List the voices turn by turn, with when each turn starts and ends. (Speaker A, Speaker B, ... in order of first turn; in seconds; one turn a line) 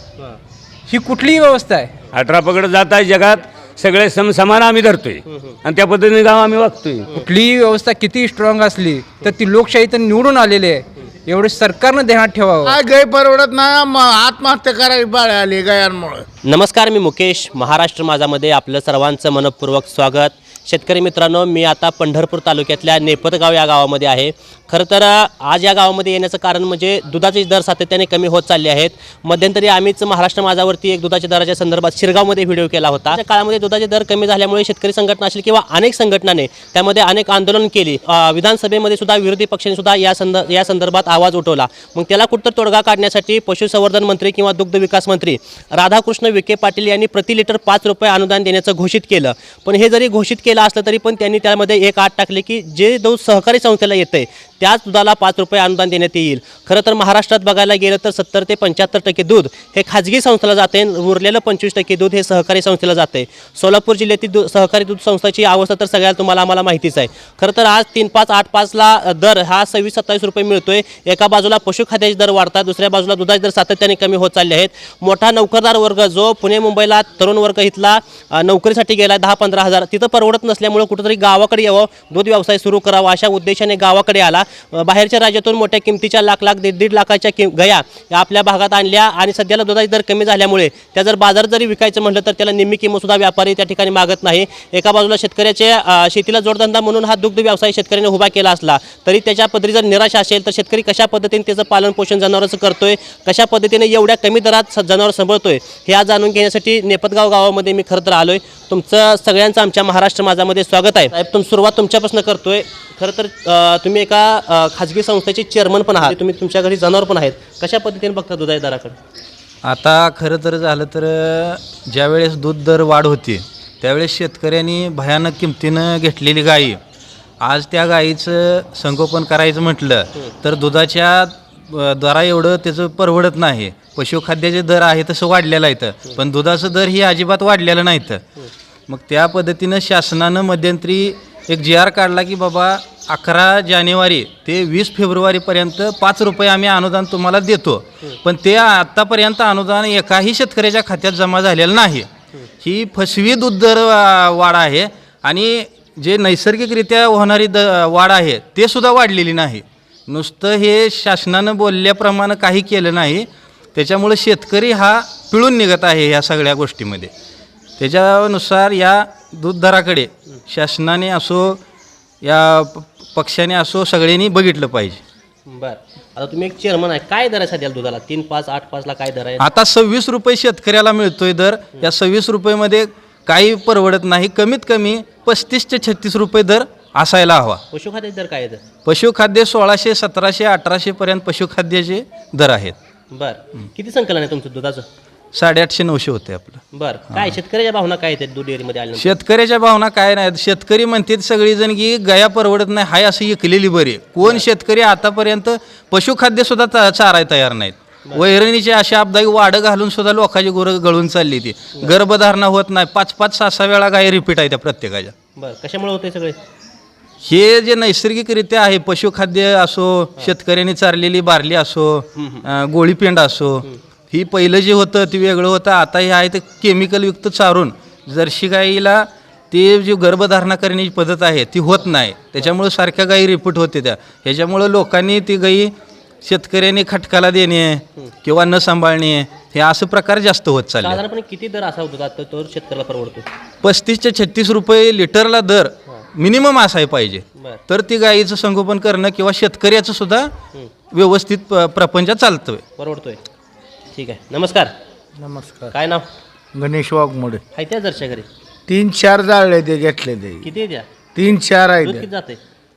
Speaker A: 0.9-1.9
Speaker B: 2.1-7.1
Speaker C: 5.3-5.5
Speaker A: 7.2-12.8
Speaker D: 12.7-16.2
Speaker C: 16.4-119.0
Speaker E: 119.6-126.8
Speaker E: 127.4-138.2
Speaker E: 138.9-152.1
Speaker E: 152.6-167.1
Speaker E: 167.8-171.6
Speaker E: 172.2-175.0
Speaker C: 175.5-179.4
Speaker E: 179.4-187.6
Speaker C: 187.7-188.6
Speaker E: 188.8-192.8
Speaker C: 193.1-194.8
Speaker E: 195.3-196.6
Speaker C: 196.7-199.2
Speaker E: 199.0-215.1
Speaker C: 215.4-216.4
Speaker E: 217.2-235.7
Speaker C: 222.2-222.4
Speaker E: 236.2-241.0
Speaker C: 240.8-243.3
Speaker E: 243.6-250.3
Speaker E: 250.9-252.6
Speaker C: 252.8-253.2
Speaker C: 253.9-254.7
Speaker D: 255.2-255.7
Speaker C: 255.7-256.1
Speaker D: 256.6-257.4
Speaker C: 257.6-258.3
Speaker D: 258.7-260.4
Speaker C: 260.4-260.9
Speaker D: 261.2-262.1
Speaker C: 261.8-262.4